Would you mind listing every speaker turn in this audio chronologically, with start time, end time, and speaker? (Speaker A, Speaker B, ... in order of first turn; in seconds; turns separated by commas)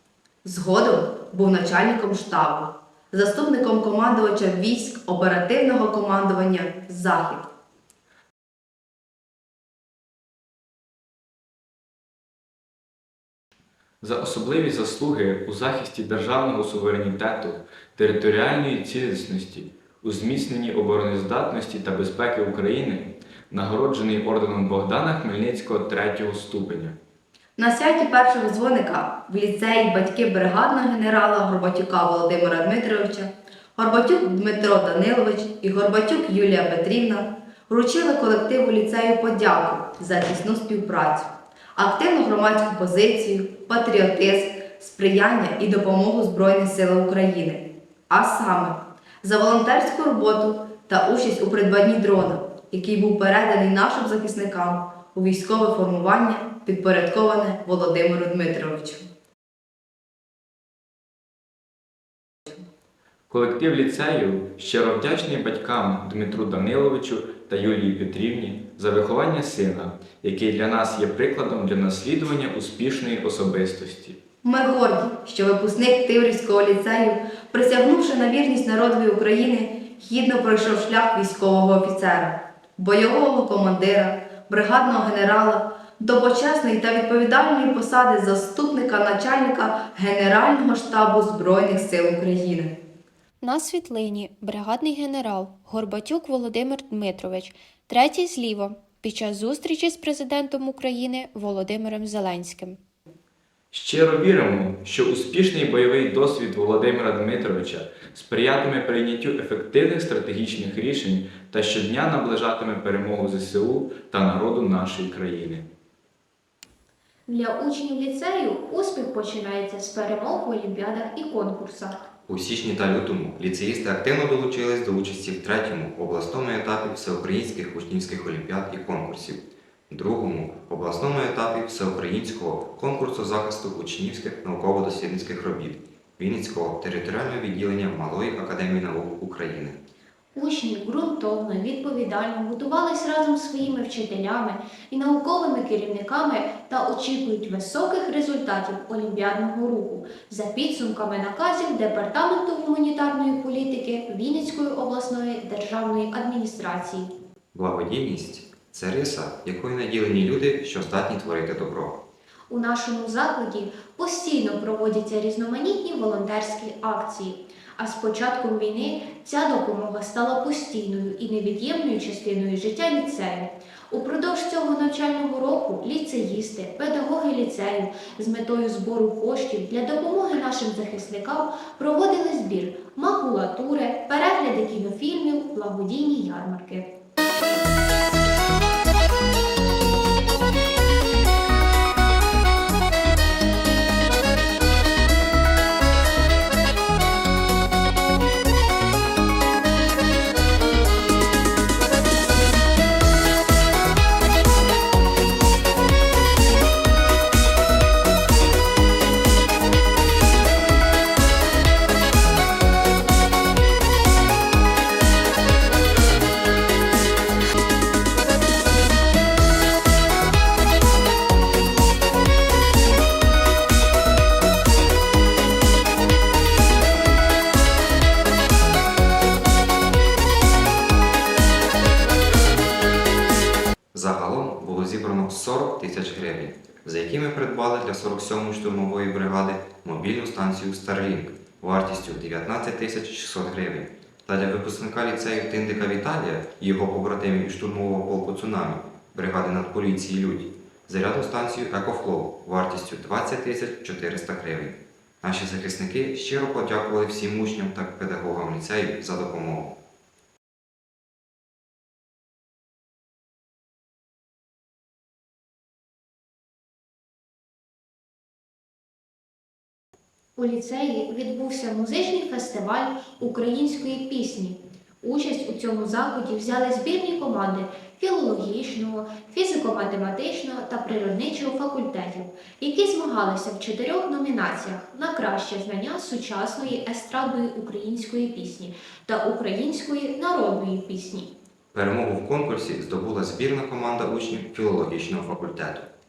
Speaker A: 0.4-7.5, Speaker B: 14.0-26.9, Speaker A: 27.6-59.1, Speaker B: 63.3-74.2, Speaker A: 74.4-92.7, Speaker C: 93.4-102.8, Speaker B: 103.7-115.6, Speaker C: 117.3-122.0, Speaker D: 122.3-139.8, Speaker C: 140.3-157.1, Speaker D: 157.5-162.0, Speaker C: 162.5-186.9, Speaker D: 233.9-259.8, Speaker C: 270.4-291.3, Speaker D: 291.7-295.9